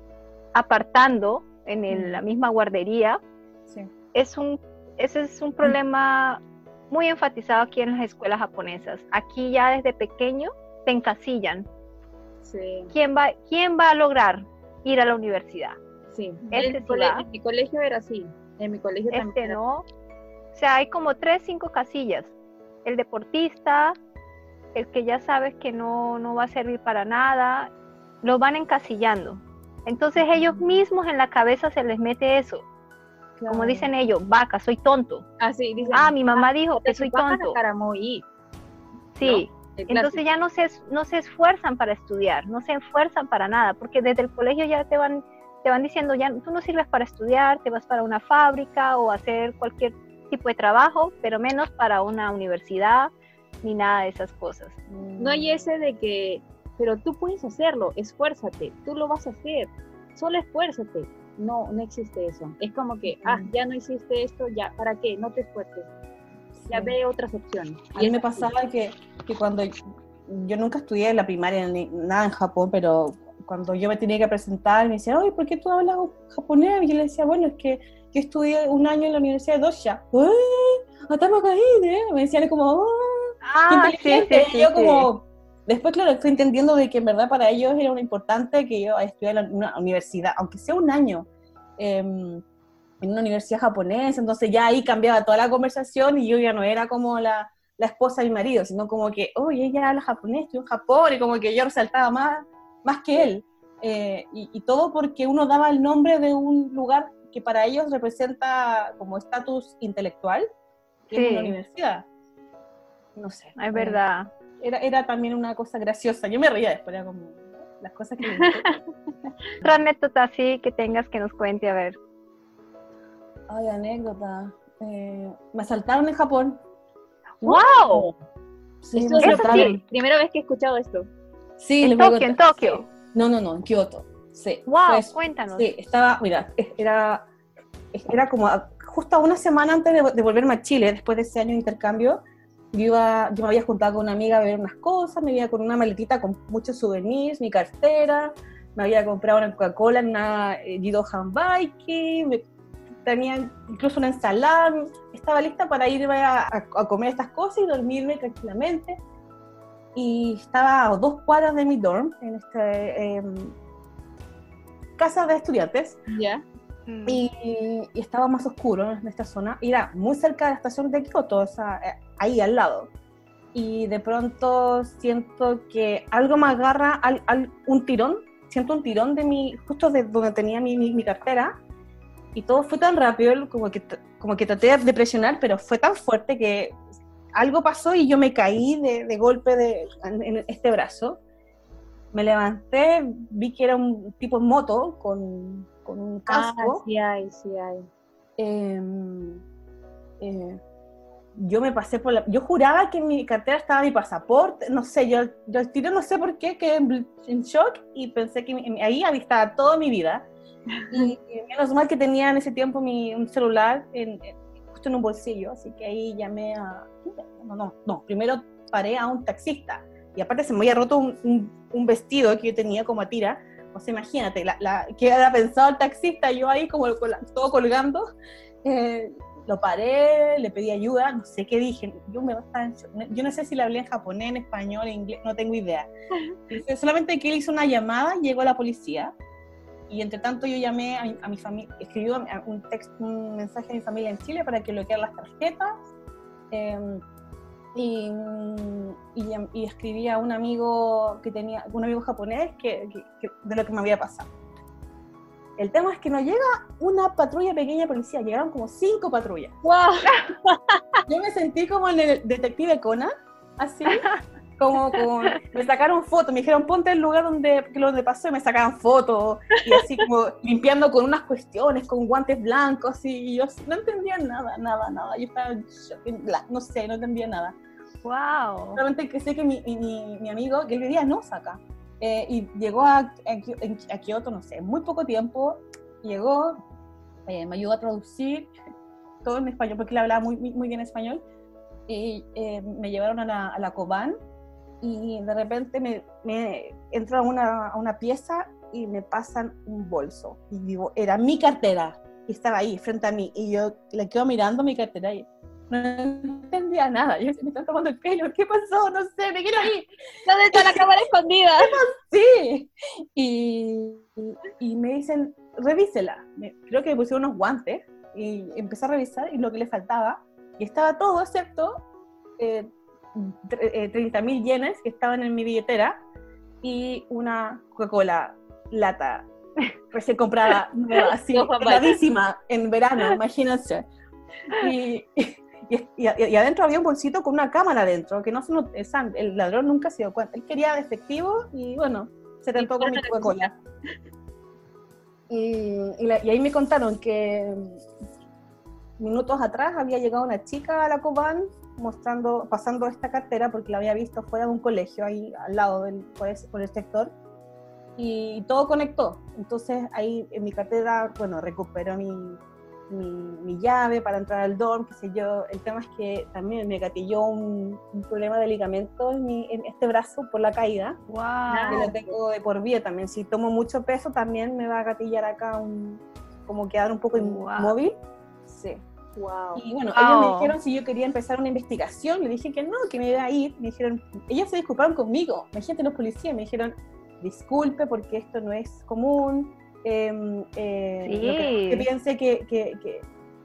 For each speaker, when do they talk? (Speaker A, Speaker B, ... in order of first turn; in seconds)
Speaker A: 0.5-3.2, 4.1-11.7, 12.9-15.8, 16.5-17.2, 19.1-19.8, 20.5-22.3, 22.8-23.9, 24.7-32.6, 33.5-35.2, 35.9-37.6, 39.2-53.1, 53.6-54.8, 83.4-85.1, 111.1-111.5, 113.5-114.3, 119.6-122.0, 127.4-128.1, 129.2-129.8, 131.8-132.8, 134.7-135.7, 166.9-167.2, 263.9-264.2, 278.0-278.8, 371.1-371.9, 377.1-377.8, 379.9-380.5, 391.0-391.9
Speaker B: 1.9-2.2, 30.3-30.6, 33.4-33.9, 54.9-55.7, 63.2-63.5, 66.6-67.0, 67.9-69.8, 70.3-91.3, 91.8-92.4, 93.0-110.5, 111.1-112.0, 113.2-114.0, 114.6-118.6, 123.5-126.6, 128.8-129.8, 131.6-137.2, 137.9-142.2, 142.7-152.4, 153.0-159.0, 159.9-163.5, 165.0-166.0, 167.1-172.9, 173.5-181.5, 182.3-186.8, 187.3-191.2, 192.1-196.8, 198.4-199.4, 200.2-200.6, 201.3-210.2, 210.9-228.1, 228.6-235.9, 236.5-239.1, 239.9-245.8, 246.5-247.0, 247.7-254.3, 255.6-259.6, 261.1-277.6, 278.8-286.6, 287.2-288.5, 289.2-291.2, 291.9-294.2, 294.8-309.9, 310.5-310.9, 311.6-321.8, 322.4-325.9, 326.6-329.3, 329.9-333.9, 334.5-343.5, 345.3-347.8, 349.0-357.1, 358.0-371.0, 371.7-378.8, 379.6-393.1
Speaker C: 12.4-12.9, 16.1-19.6, 35.4-38.2, 39.2-40.2, 55.2-65.9, 66.7-68.5, 118.2-118.8, 127.4-128.1, 128.9-131.1, 166.1-166.4, 196.3-197.9, 210.8-211.1, 259.6-261.0, 310.2-311.8, 331.1-332.0, 342.6-343.5, 371.5-372.1, 379.1-379.6